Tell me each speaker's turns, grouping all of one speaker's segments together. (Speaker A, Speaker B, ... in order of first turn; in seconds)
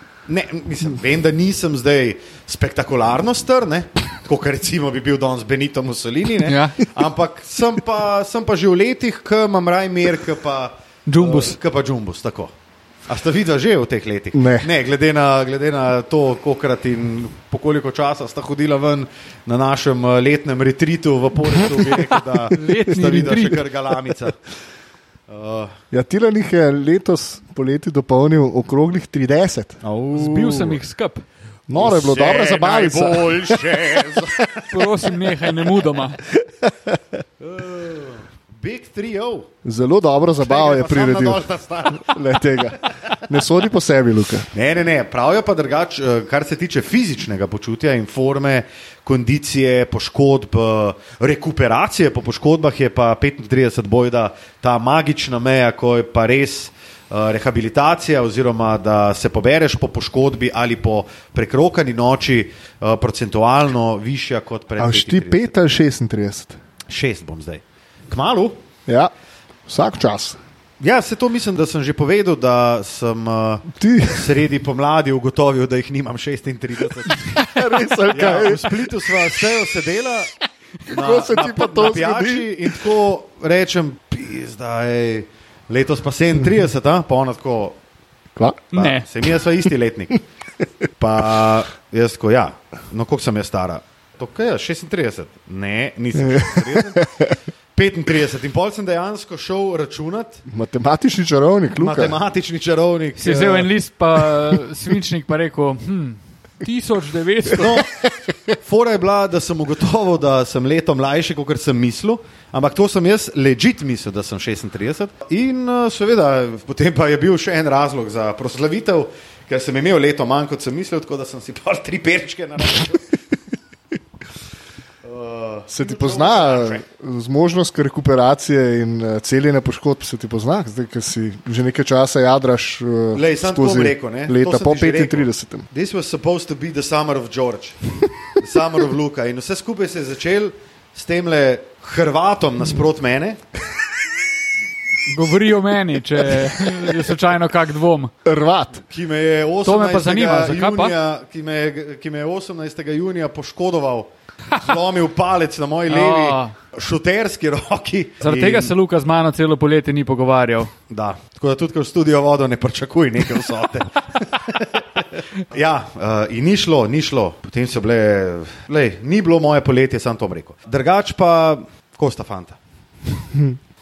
Speaker A: 0.3-12.5, 13.1-24.4, 25.3-25.7, 29.9-30.4, 31.7-34.6, 37.4-39.5, 40.4-42.2, 44.5-65.5, 66.9-68.6, 70.8-77.5, 78.1-80.3, 80.8-87.8, 88.7-90.2, 91.0-97.0, 97.7-100.4, 101.8-103.7, 107.5-107.9, 108.6-123.1, 125.0-126.8, 133.1-137.8, 138.3-143.4, 148.9-158.7, 160.9-172.6
Speaker B: 6.4-6.8, 11.1-11.6, 22.1-23.6, 30.1-31.2, 34.7-36.2, 81.4-81.8, 88.7-89.0, 103.2-107.8, 145.1-148.1, 149.6-150.9, 155.9-156.5, 158.2-160.7
Speaker C: 14.3-14.7, 22.5-23.4, 25.9-30.8, 31.7-34.3, 36.4-37.0, 39.6-44.5, 64.8-66.6, 69.7-70.4, 73.7-74.2, 77.2-79.3, 80.9-82.8, 88.3-88.6, 96.1-97.4, 100.5-102.2, 108.0-108.5, 125.7-135.7, 146.2-147.1, 148.2-148.8, 173.3-173.6